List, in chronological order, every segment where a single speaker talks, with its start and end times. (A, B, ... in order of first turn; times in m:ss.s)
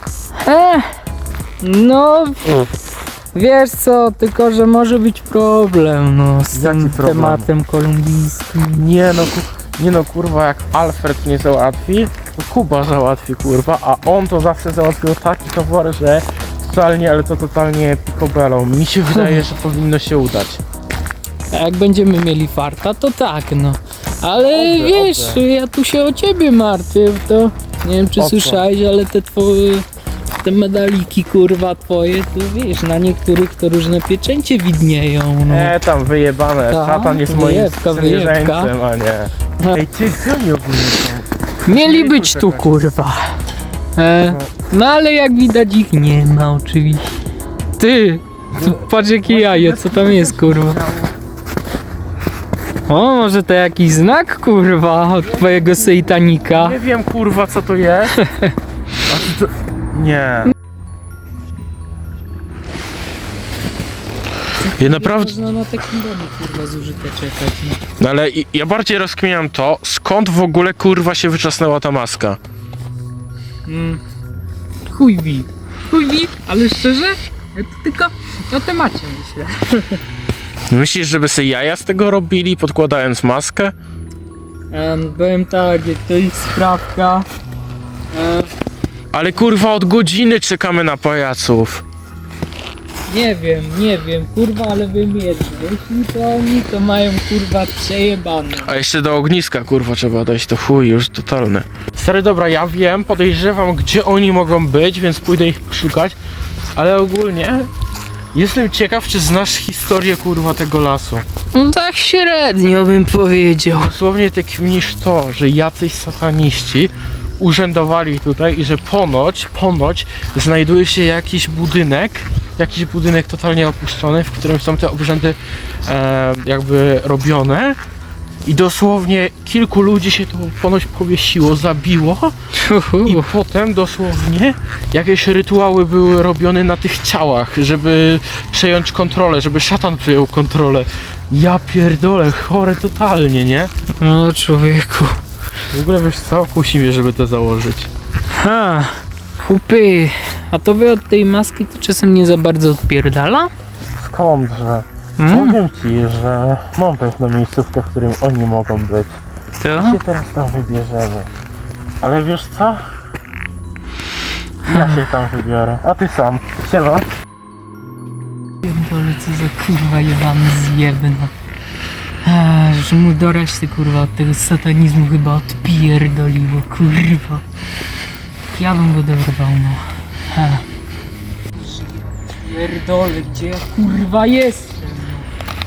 0:00.4-0:01.0 A
0:01.6-0:02.7 A
0:03.3-0:08.8 A
0:06.5-0:07.5 B
0:08.7-0:20.6 B
0:19.2-0:19.4 A
0:21.5-0:29.9 A
0:24.4-0:25.4 B
0:28.2-0:28.6 B
0:30.4-0:35.7 A
0:35.5-0:42.8 B
0:36.7-0:38.7 A
0:41.7-0:43.3 A
0:44.0-0:47.1 A
0:44.3-0:44.5 B
0:47.8-0:50.8 A
0:48.5-0:51.1 B
0:52.9-0:56.8 A
0:55.2-0:55.9 B
0:56.5-0:58.2 B
0:58.2-0:58.5 A
0:59.1-1:00.5 B
1:04.6-1:07.8 A
1:04.8-1:05.3 B
1:08.0-1:12.4 B
1:13.7-1:14.0 A
1:14.9-1:20.0 A
1:20.7-1:23.8 B
1:24.7-1:27.3 A
1:28.1-1:28.5 A
1:29.1-1:31.8 B
1:33.1-1:38.8 A
1:38.6-1:46.2 B
1:46.7-1:47.7 B
1:48.3-1:51.3 B
1:51.5-1:53.9 A
1:53.7-2:07.8 B
2:08.4-2:12.3 B
2:12.6-2:13.3 A
2:13.0-2:23.7 B
2:23.9-2:25.2 A
2:25.7-2:27.9 B
2:28.3-2:33.5 A
2:34.0-2:39.1 B
2:35.2-2:35.6 A
2:39.6-2:40.0 A
2:39.8-2:41.3 B
2:42.0-2:42.8 B
2:44.6-2:47.1 B
2:44.7-2:45.0 A
2:48.6-2:51.3 A
2:52.2-2:57.4 A
2:58.5-3:00.6 A
3:01.5-3:05.3 A